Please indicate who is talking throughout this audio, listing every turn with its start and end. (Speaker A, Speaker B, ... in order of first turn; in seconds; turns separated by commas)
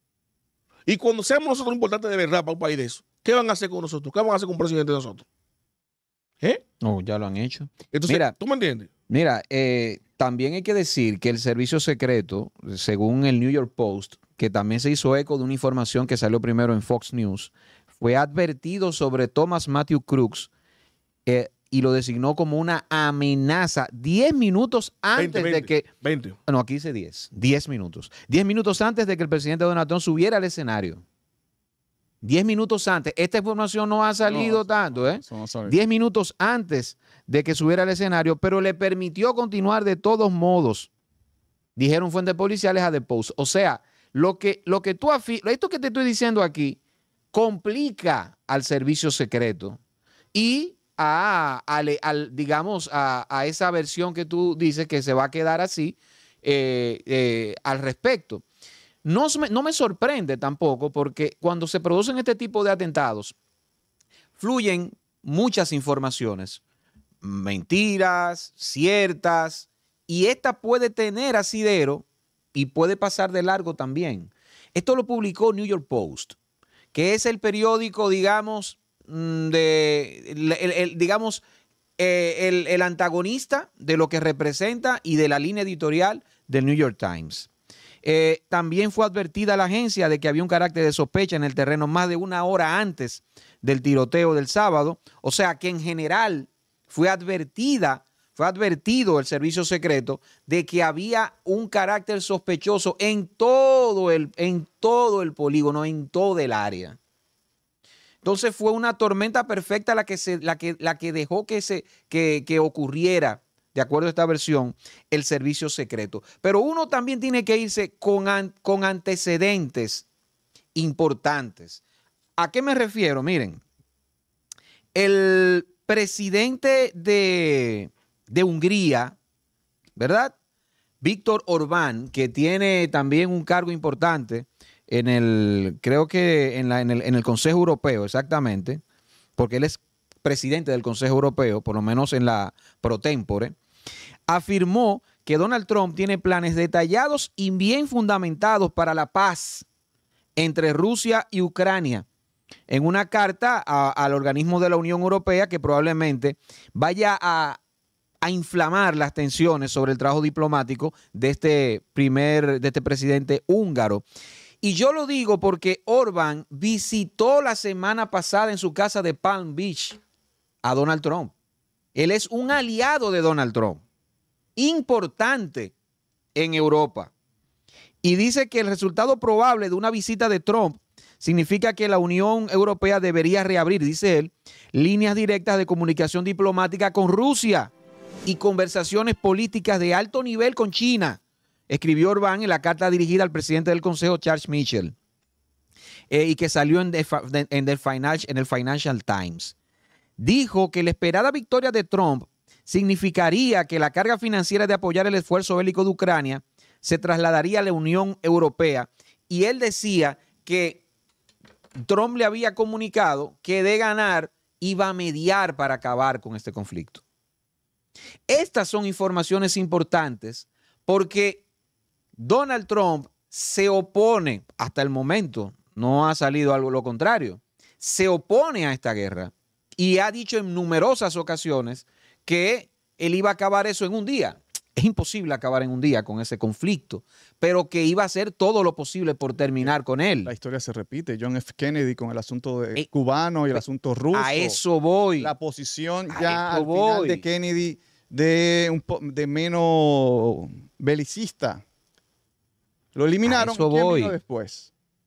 Speaker A: 0.9-5.3, Speaker B: 6.8-8.3, Speaker A: 7.9-8.9, Speaker B: 9.1-20.5, Speaker B: 21.3-25.9, Speaker A: 25.2-26.4, Speaker B: 26.5-31.0, Speaker B: 32.2-40.9, Speaker C: 34.2-35.8, Speaker B: 41.8-46.8, Speaker B: 47.3-49.8, Speaker B: 50.3-58.4, Speaker B: 59.0-63.4, Speaker B: 64.4-66.6, Speaker B: 67.2-76.4, Speaker B: 76.9-81.4, Speaker B: 82.0-87.5, Speaker B: 88.0-107.0, Speaker B: 108.2-120.0, Speaker B: 120.7-121.8, Speaker B: 122.4-123.6, Speaker B: 124.9-129.2, Speaker B: 130.0-130.3, Speaker B: 131.0-138.8, Speaker B: 139.4-143.6, Speaker B: 144.3-149.7, Speaker B: 150.4-152.1, Speaker B: 152.7-157.6, Speaker B: 158.2-164.0, Speaker B: 164.6-170.0, Speaker B: 170.6-171.3, Speaker B: 171.9-173.8, Speaker B: 174.6-175.7, Speaker B: 176.3-177.1, Speaker B: 178.0-187.7, Speaker B: 188.2-194.9, Speaker B: 196.1-199.6, Speaker B: 200.2-210.8, Speaker B: 211.8-217.0, Speaker B: 218.3-221.4, Speaker B: 222.2-240.3, Speaker C: 239.6-244.6, Speaker B: 243.5-245.3, Speaker C: 245.2-251.6, Speaker B: 246.1-247.2, Speaker C: 252.9-254.7, Speaker B: 253.2-254.2